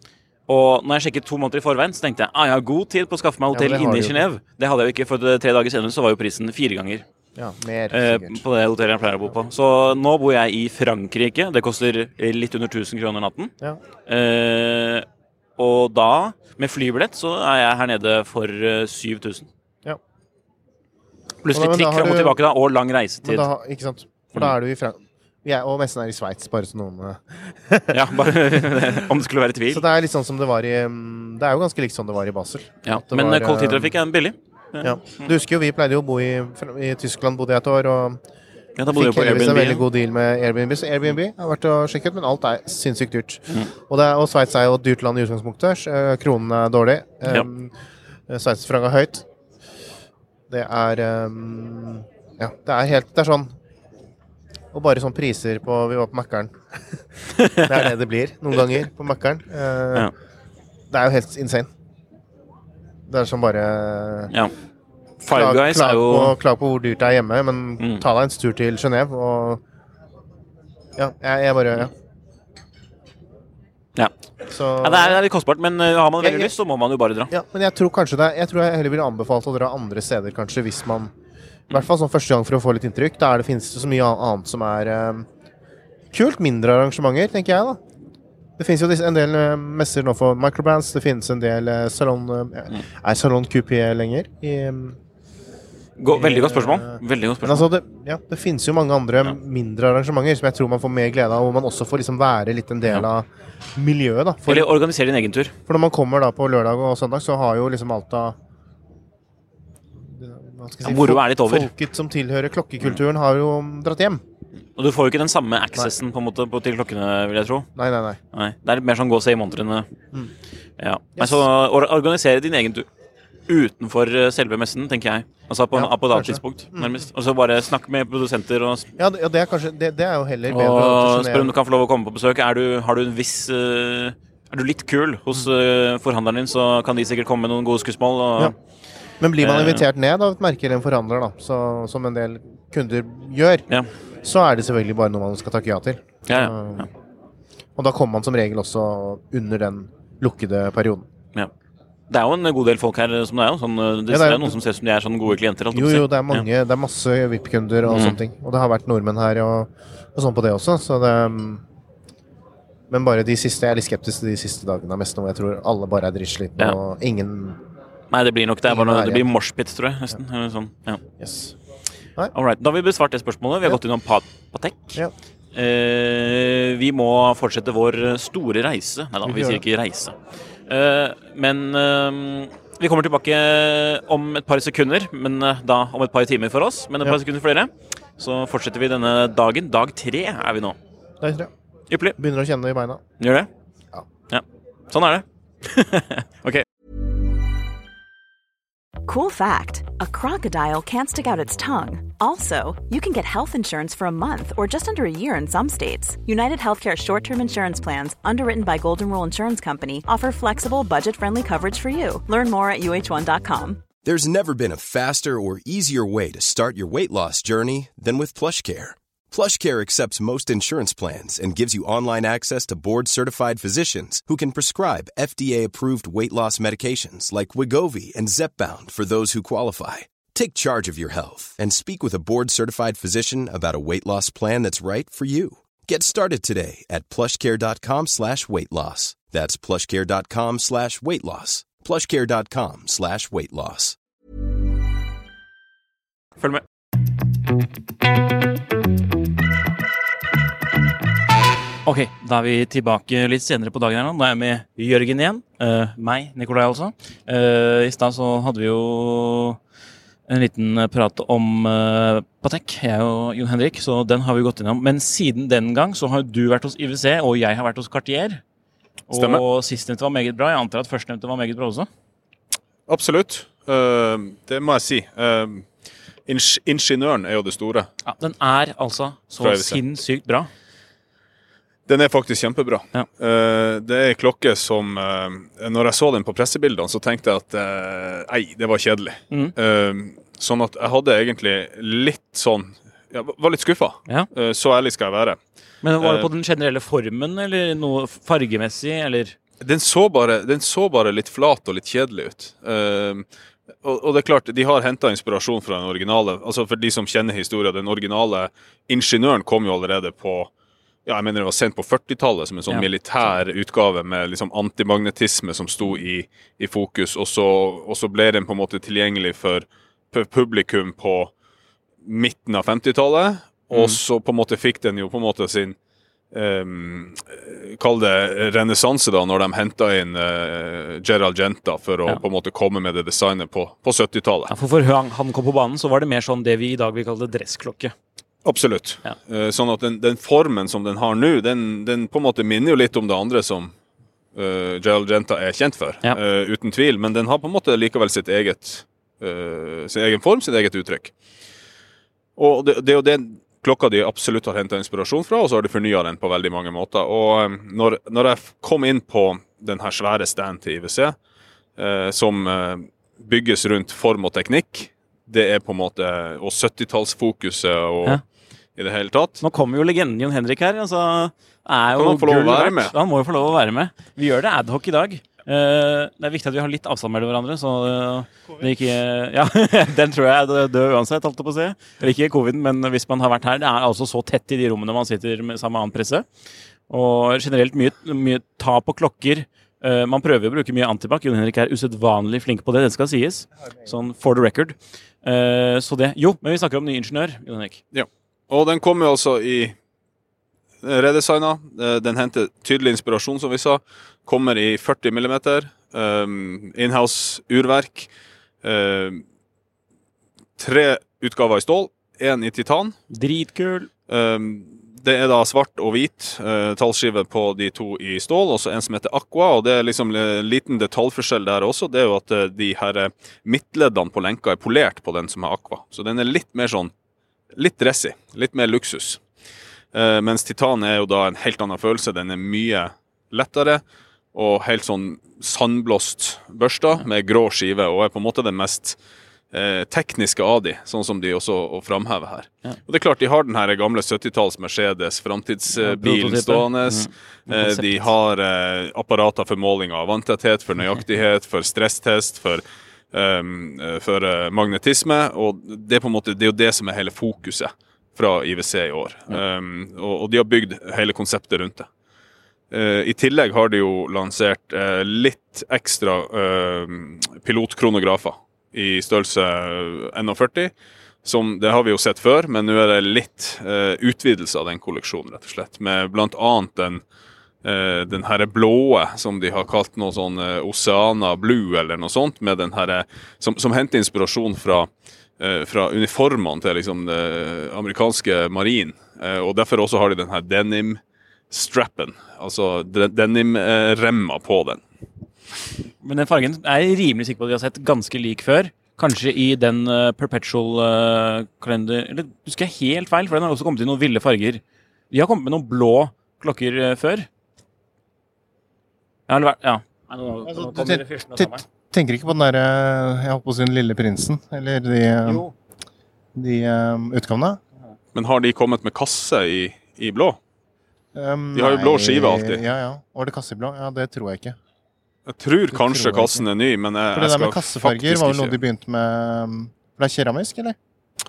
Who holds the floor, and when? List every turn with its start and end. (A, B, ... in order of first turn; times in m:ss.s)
0:00.5-0:07.0 A
0:03.5-0:04.2 B
0:07.4-0:08.4 B
0:07.9-0:13.5 A
0:14.0-0:15.0 A
0:15.6-0:19.5 A
0:21.4-0:23.5 A
0:21.5-0:22.4 B
0:23.2-0:28.6 B
0:27.9-0:29.8 A
0:29.7-0:34.0 B
0:32.8-0:35.3 A
0:34.8-0:38.2 B
0:38.8-0:39.9 A
0:38.9-0:47.7 B
0:48.3-0:49.2 B
0:50.5-0:53.5 B
0:54.7-0:57.0 B
0:57.4-0:57.8 A
0:57.6-1:00.1 B
1:00.9-1:01.7 B
1:03.1-1:04.3 B
1:05.2-1:06.4 A
1:05.3-1:09.6 B
1:07.8-1:08.0 A
1:11.0-1:11.9 B
1:14.5-1:15.2 B
1:14.8-1:17.3 A
1:16.2-1:16.5 B
1:17.3-1:21.1 B
1:21.7-1:25.2 B
1:26.1-1:27.8 B
1:28.6-1:35.0 B
1:36.0-1:37.7 A
1:36.1-1:44.7 B
1:44.5-1:45.5 A
1:45.7-1:48.4 B
1:50.0-1:54.2 B
1:50.8-1:51.7 A
1:54.8-1:57.7 A
1:57.8-1:58.2 B
1:58.3-1:59.9 A
2:00.8-2:02.9 A
2:01.2-2:01.4 B
2:03.5-2:08.9 A
2:05.7-2:07.1 B
2:09.0-2:11.5 B
2:10.5-2:18.5 A
2:19.2-2:23.7 B
2:19.4-2:19.8 A
2:24.2-2:26.9 B
2:26.3-2:26.8 A
2:27.8-2:31.1 B
2:32.1-2:36.4 A
2:34.1-2:34.6 B
2:35.7-2:41.6 B
2:37.9-2:38.2 A
2:42.9-2:47.6 B
2:48.1-2:51.0 A
2:48.7-2:49.2 B
2:51.2-2:51.6 B
2:52.3-2:55.0 A
2:55.5-3:10.8 A
2:59.2-2:59.6 B
3:11.2-3:11.5 B
3:11.9-3:12.2 A
3:12.2-3:13.0 B
3:13.2-3:13.5 A
3:14.3-3:16.6 A
3:19.0-3:33.8 C
3:34.0-4:04.0 D
4:11.8-4:19.6 A
4:20.3-4:28.4 A
4:29.1-4:31.9 A
4:29.1-4:29.4 E
4:32.9-4:35.7 E
4:36.3-4:37.9 E
4:38.1-4:40.5 A
4:39.4-4:39.8 E
4:41.9-4:55.4 E
4:55.8-4:59.4 A
4:56.0-4:56.3 E
4:59.6-5:03.2 E
5:03.8-5:10.5 E
5:11.0-5:21.3 E
5:22.0-5:25.8 E
5:23.7-5:24.0 A
5:26.3-5:34.5 E
5:34.5-5:37.9 A
5:38.4-5:43.7 E
5:44.3-5:51.1 E
5:52.4-6:01.2 E
6:01.8-6:08.2 E
6:08.8-6:09.4 E
6:09.4-6:26.2 A
6:11.9-6:12.9 E
6:26.9-6:37.8 A
6:37.9-6:39.7 E
6:40.8-6:48.1 E
6:48.6-6:49.2 E
6:50.6-6:53.0 E
6:53.1-6:53.9 A
6:54.1-7:06.9 E
7:07.6-7:09.2 E
7:09.9-7:13.8 E
7:14.3-7:19.0 E
7:19.5-7:41.9 E
7:25.8-7:28.1 A
7:42.7-7:50.7 E
7:51.2-7:57.0 E
7:57.6-8:11.0 E
8:11.5-8:14.8 E
8:16.0-8:27.3 A
8:29.3-8:31.6 A
8:30.4-8:35.4 B
8:35.2-8:35.5 A
8:36.3-8:37.6 B
8:38.1-8:40.4 E
8:41.1-8:44.6 B
8:41.5-8:42.6 E
8:45.3-8:48.6 E
8:45.7-8:46.4 B
8:47.1-8:50.8 B